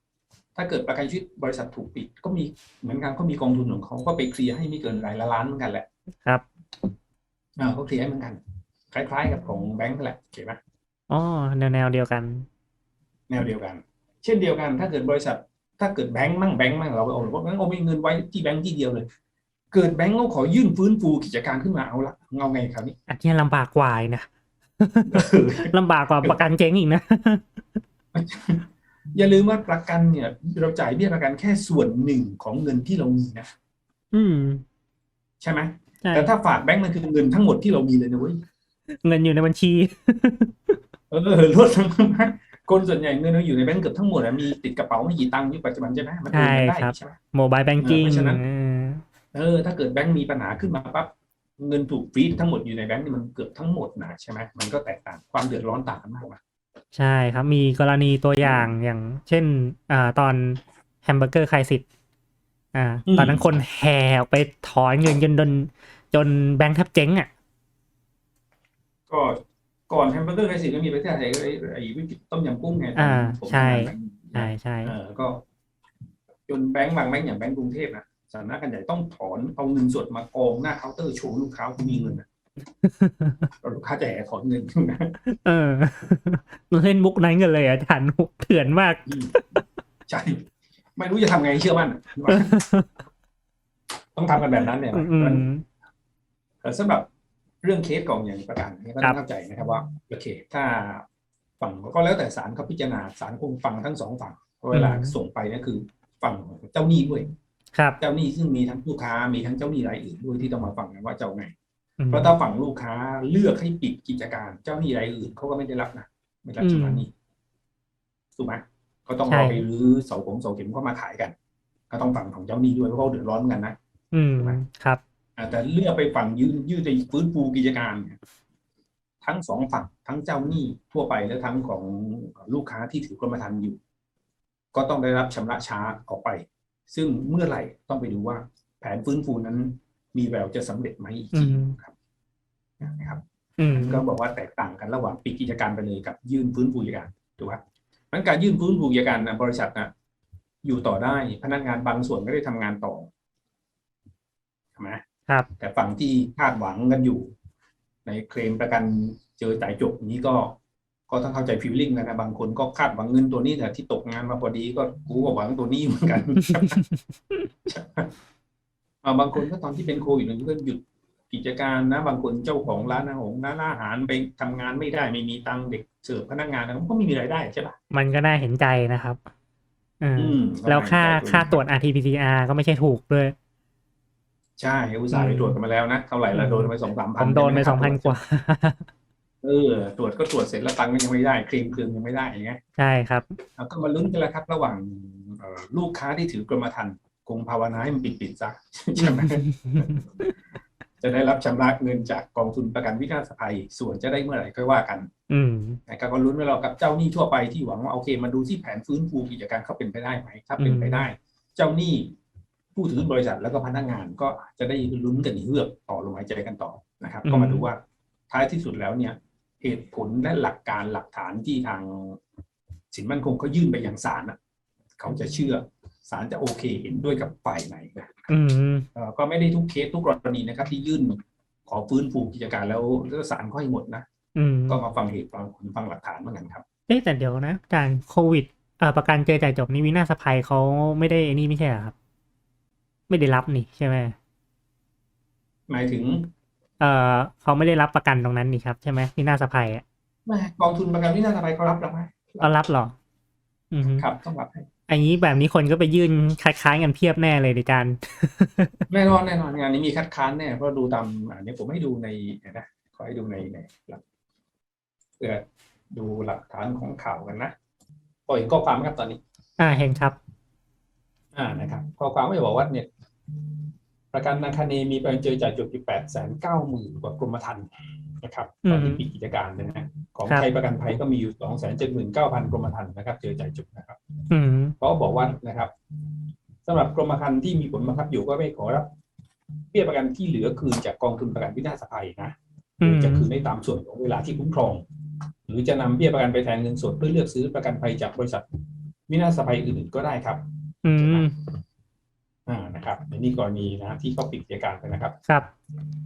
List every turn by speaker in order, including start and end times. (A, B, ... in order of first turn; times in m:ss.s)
0:00.6-0:05.9 A
0:07.6-0:08.4 A
0:08.9-0:10.6 A
0:11.1-0:12.5 B
0:13.3-0:19.1 A
0:19.7-0:23.0 A
0:23.1-0:24.3 B
0:24.8-0:27.5 B
0:25.1-0:26.4 A
0:28.2-0:33.5 A
0:34.1-0:34.6 B
0:35.4-0:38.4 A
0:36.0-0:36.3 B
0:39.0-0:40.8 B
0:41.1-0:47.2 A
0:46.3-0:49.0 B
0:47.8-0:48.4 A
0:49.3-0:56.4 A
0:56.9-1:01.8 B
0:58.4-0:58.7 A
1:02.7-1:07.3 B
1:03.1-1:03.6 A
1:09.1-1:15.4 A
1:13.0-1:15.0 B
1:16.5-1:22.2 A
1:22.8-1:23.5 B
1:23.6-1:25.2 A
1:25.4-1:29.5 B
1:29.1-1:29.4 A
1:30.1-1:32.5 A
1:32.3-1:32.9 B
1:34.2-1:35.5 A
1:34.9-1:35.6 B
1:36.6-1:37.1 A
1:37.6-1:41.0 A
1:41.6-1:47.3 A
1:44.7-1:45.2 B
1:47.7-1:48.0 B
1:48.0-1:51.5 A
1:52.0-1:52.3 B
1:52.1-1:57.1 A
1:56.6-1:57.0 B
1:58.4-2:01.3 A
1:59.3-1:59.6 B
2:01.9-2:03.8 A
2:04.1-2:05.0 B
2:05.4-2:08.2 A
2:09.2-2:13.8 A
2:14.7-2:21.9 A
2:21.3-2:21.8 B
2:22.8-2:27.6 A
2:23.6-2:24.0 B
2:28.1-2:29.9 A
2:30.6-2:33.1 A
2:35.6-2:37.3 A
2:38.1-2:40.6 A
2:41.1-2:46.8 A
2:46.6-2:47.5 B
2:47.7-2:48.1 A
2:49.0-2:57.8 A
2:57.9-2:59.2 B
3:00.0-3:03.4 B
3:00.2-3:01.6 A
3:04.6-3:08.2 A
3:05.1-3:05.6 B
3:06.3-3:08.9 B
3:09.4-3:12.6 A
3:12.8-3:13.3 B
3:13.6-3:20.0 A
3:19.0-3:20.3 B
3:21.0-3:25.1 A
3:25.3-3:25.8 B
3:25.9-3:32.1 A
3:30.6-3:31.1 B
3:32.8-3:42.2 A
3:37.2-3:37.7 B
3:42.9-3:44.4 A
3:45.0-3:48.3 A
3:48.3-3:48.9 B
3:48.9-3:54.0 A
3:54.4-3:54.8 B
3:54.7-3:56.6 A
3:56.9-4:01.9 B
4:03.1-4:04.2 B
4:05.7-4:06.3 A
4:06.8-4:09.8 B
4:10.3-4:12.5 A
4:12.4-4:12.9 B
4:13.7-4:14.1 B
4:14.0-4:14.7 A
4:14.9-4:18.9 B
4:18.9-4:24.0 A
4:25.2-4:27.5 A
4:28.3-4:29.2 A
4:29.6-4:30.2 B
4:31.4-4:33.6 A
4:34.1-4:44.0 A
4:38.6-4:39.0 B
4:44.3-4:44.8 B
4:44.8-4:45.7 A
4:46.6-4:48.9 A
4:49.7-4:54.8 A
4:52.8-4:53.3 B
4:55.5-4:58.5 A
4:59.1-5:00.4 A
5:00.8-5:01.3 B
5:01.0-5:01.3 A
5:02.5-5:05.2 A